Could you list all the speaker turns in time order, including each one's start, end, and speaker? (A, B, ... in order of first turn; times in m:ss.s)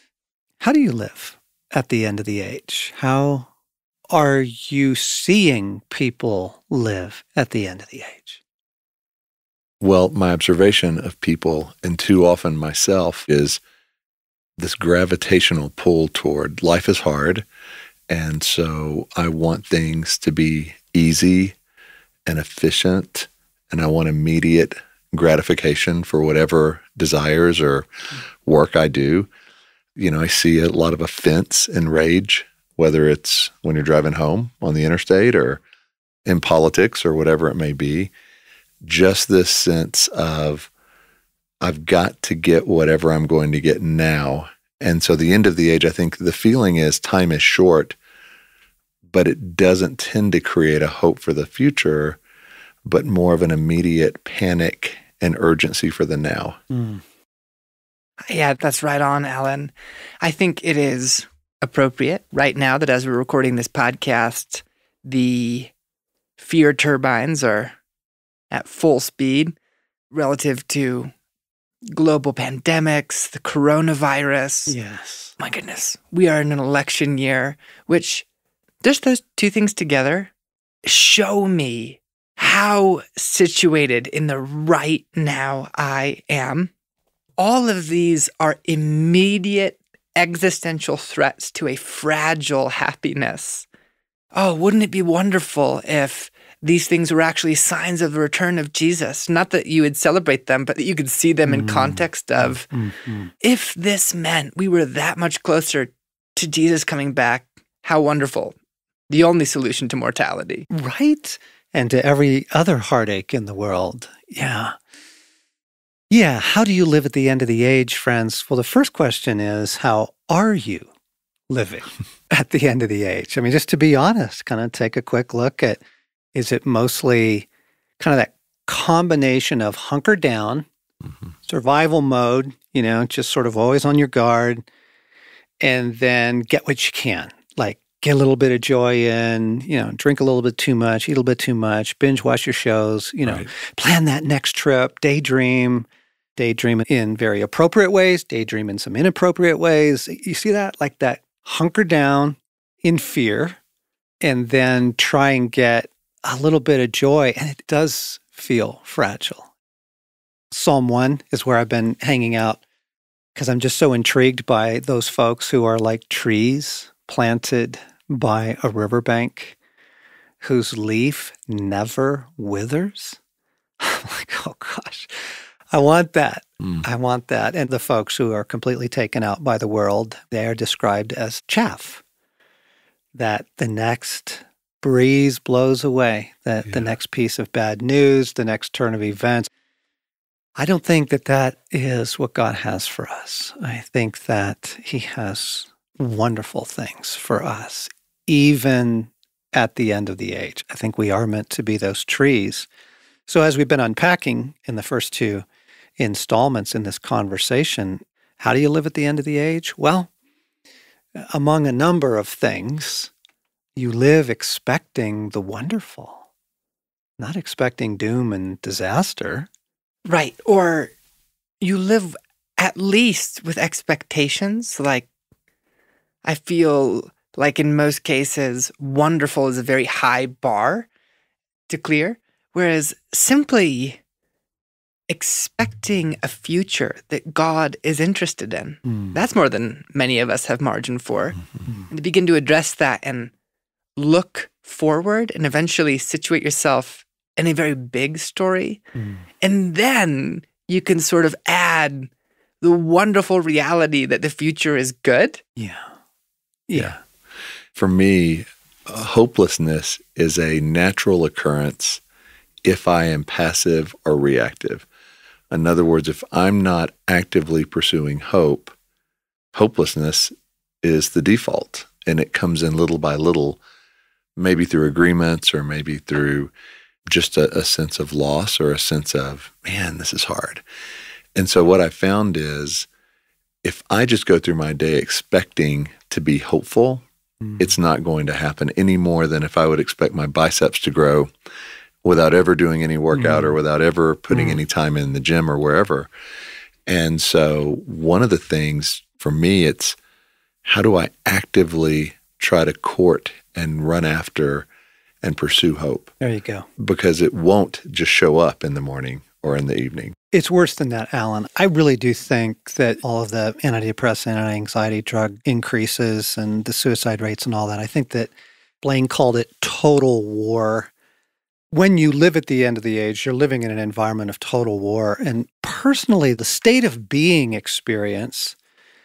0:00.6-0:03.5 A
0:04.1-0:08.4 A
0:09.8-0:13.6 B
0:14.6-0:17.4 B
0:18.1-0:21.6 B
0:22.3-0:27.9 B
0:28.5-0:29.3 B
0:30.0-0:35.6 B
0:36.2-0:38.1 B
0:38.8-0:40.7 B
0:41.6-0:48.0 B
0:49.1-0:52.2 B
0:52.8-0:56.6 B
0:56.7-0:57.0 A
0:58.3-1:05.7 C
1:06.4-1:07.8 C
1:08.5-1:09.6 C
1:10.1-1:11.1 C
1:11.9-1:14.8 C
1:14.7-1:15.4 A
1:15.4-1:18.2 C
1:18.8-1:20.3 C
1:20.8-1:26.7 C
1:27.4-1:33.7 C
1:34.3-1:42.7 C
1:41.5-1:43.3 A
1:43.4-1:48.6 C
1:49.1-1:50.7 C
1:50.7-1:54.8 A
1:56.1-2:00.9 A
2:01.5-2:05.8 A
2:06.3-2:07.5 A
2:08.0-2:10.7 A
2:11.5-2:14.7 A
2:15.6-2:33.6 A
2:23.2-2:23.5 B
2:34.2-2:39.5 A
2:40.5-2:42.6 A
2:43.4-2:49.6 A
2:50.4-2:53.2 A
2:53.8-3:02.0 A
3:03.1-3:09.5 A
3:10.6-3:22.7 A
3:23.3-3:25.5 A
3:26.0-3:30.1 A
3:31.2-3:33.1 A
3:33.8-3:36.2 A
3:37.2-3:39.5 A
3:40.0-3:40.9 C
3:41.6-3:45.1 C
3:46.2-3:50.9 C
3:51.7-3:54.0 C
3:55.1-4:03.3 C
4:04.0-4:08.8 C
4:09.0-4:09.2 A
4:09.4-4:12.1 C
4:12.6-4:15.4 C
4:15.6-4:15.9 A
4:16.7-4:17.0 A
4:17.8-4:22.0 B
4:22.6-4:24.9 B
4:25.5-4:28.8 B
4:29.5-4:30.3 B
4:30.8-4:33.6 B
4:34.4-4:36.5 B
4:37.1-4:40.6 B
4:41.4-4:42.9 B
4:43.6-4:47.0 B
4:47.6-4:51.3 B
4:52.0-4:56.1 B
4:53.2-4:53.5 A
4:54.3-4:54.6 A
4:56.9-5:00.0 B
5:00.6-5:04.7 B
5:05.2-5:06.1 B
5:06.2-5:06.7 A
5:06.8-5:10.2 B
5:10.3-5:20.9 A
5:21.7-5:28.6 A